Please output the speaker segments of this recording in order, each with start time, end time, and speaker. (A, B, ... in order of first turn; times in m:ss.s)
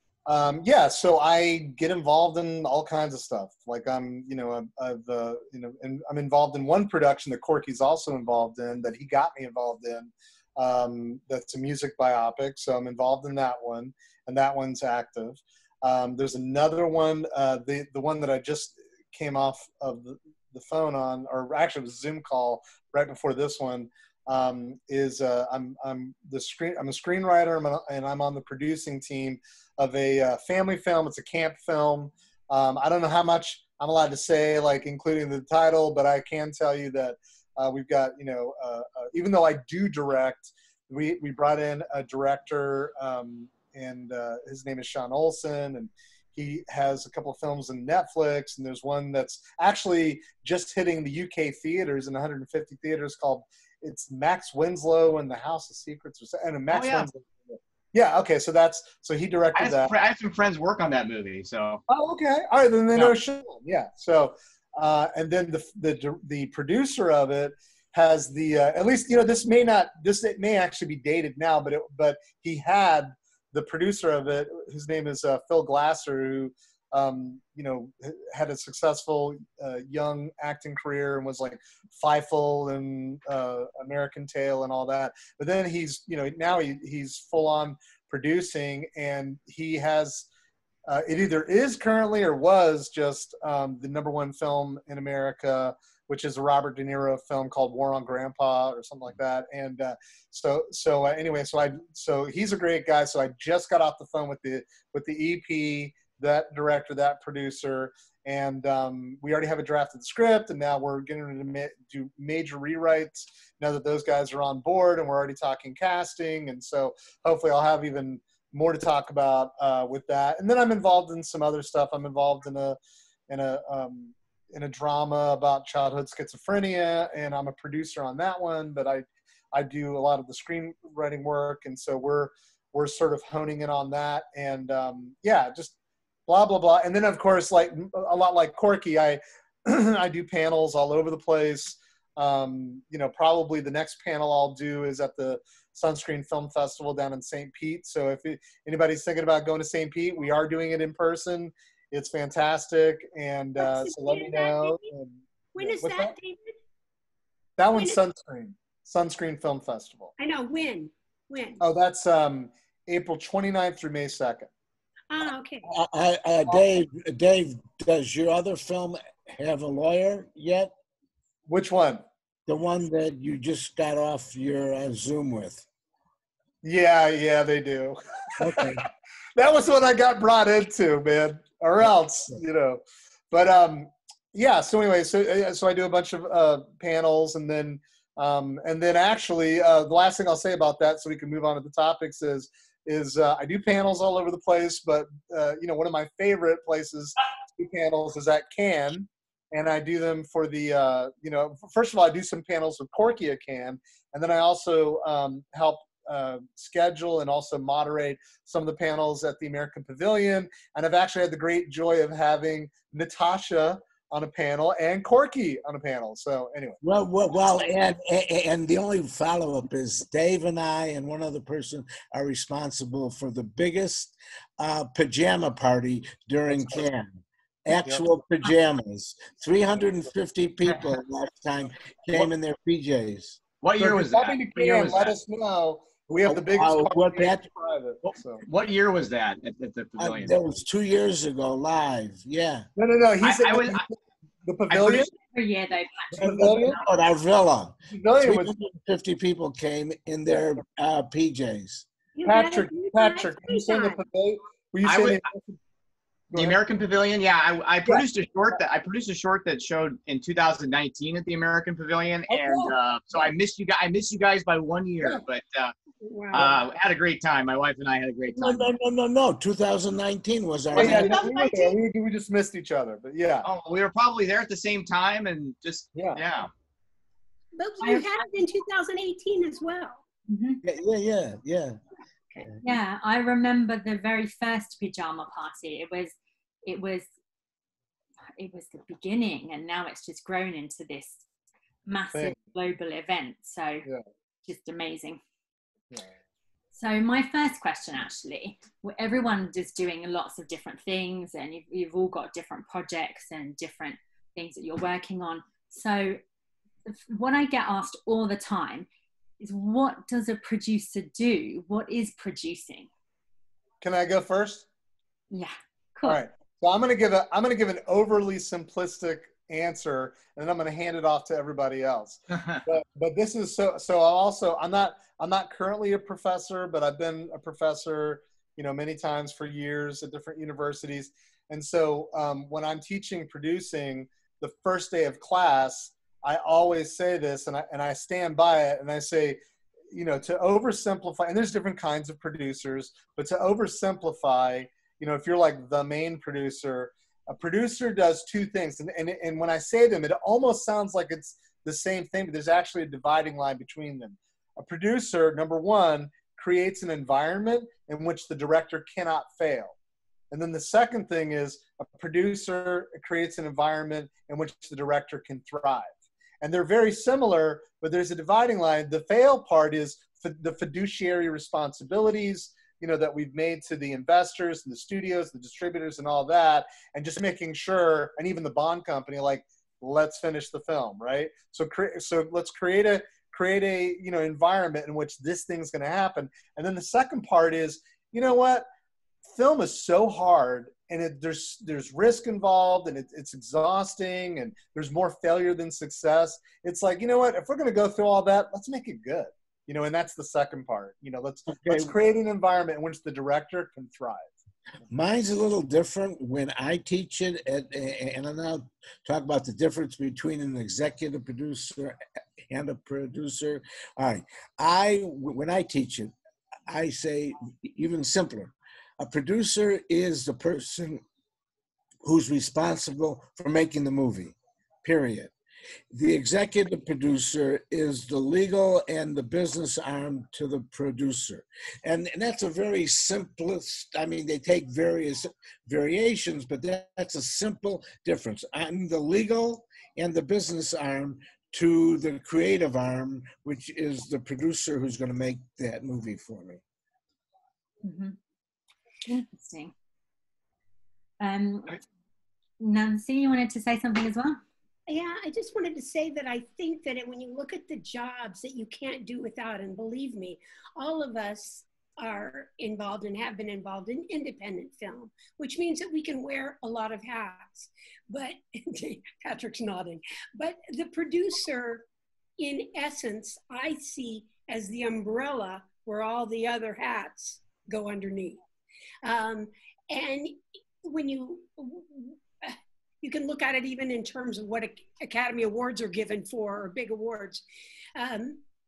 0:00.3-0:59.9 A
0:56.7-0:57.1 B
0:59.6-1:01.8 B
1:01.9-1:30.3 A
1:30.9-2:02.8 A
2:03.3-2:15.8 A
2:16.3-2:36.1 A
2:33.6-2:34.9 C
2:35.6-2:36.5 C
2:37.6-2:40.1 A
2:37.7-2:38.0 C
2:40.2-2:41.6 C
2:41.6-2:44.5 A
2:45.1-2:45.7 C
2:45.6-2:50.7 D
2:51.5-2:52.0 A
2:52.5-2:55.6 D
2:56.6-3:36.8 A
2:58.4-2:58.8 D
3:36.8-3:53.4 D
3:47.7-3:48.0 A
3:53.6-3:55.2 B
3:53.8-3:58.4 A
3:56.2-3:57.5 D
3:58.0-4:00.5 B
4:00.0-4:02.7 D
4:02.8-4:05.1 A
4:03.2-4:03.8 B
4:04.7-4:05.1 B
4:05.2-4:06.9 E
4:06.2-4:11.9 D
4:06.2-4:06.8 A
4:07.9-4:08.5 A
4:12.2-4:14.0 C
4:12.3-4:15.6 A
4:14.8-4:15.3 B
4:16.3-4:25.7 B
4:22.3-4:22.7 C
4:26.0-4:26.6 C
4:26.3-4:28.7 B
4:28.3-4:31.2 D
4:30.7-4:33.5 A
4:30.8-4:31.8 C
4:33.4-4:36.5 B
4:36.0-4:36.2 A
4:37.6-4:40.0 C
4:37.8-4:38.3 E
4:40.3-4:40.6 E
4:40.6-4:41.8 D
4:42.6-4:47.1 E
4:48.4-4:51.2 E
4:51.9-4:53.9 E
4:54.5-4:55.2 E
4:56.7-5:06.2 E
5:06.9-5:08.9 E
5:09.4-5:12.9 E
5:13.8-5:14.6 A
5:15.3-5:16.2 E
5:16.0-5:39.4 A
5:39.9-5:59.8 A
6:00.3-6:28.7 A
6:29.3-6:44.3 A
6:41.5-6:41.9 D
6:44.9-6:52.0 D
6:52.5-6:56.1 D
6:56.7-7:01.0 D
7:02.0-7:05.3 D
7:05.9-7:26.6 D
7:27.8-7:28.2 E
7:29.1-7:29.7 E
7:31.2-7:31.8 E
7:32.6-7:34.4 E
7:34.9-7:51.9 C
7:52.4-7:58.4 C
7:59.0-8:07.4 C
8:08.0-8:08.4 C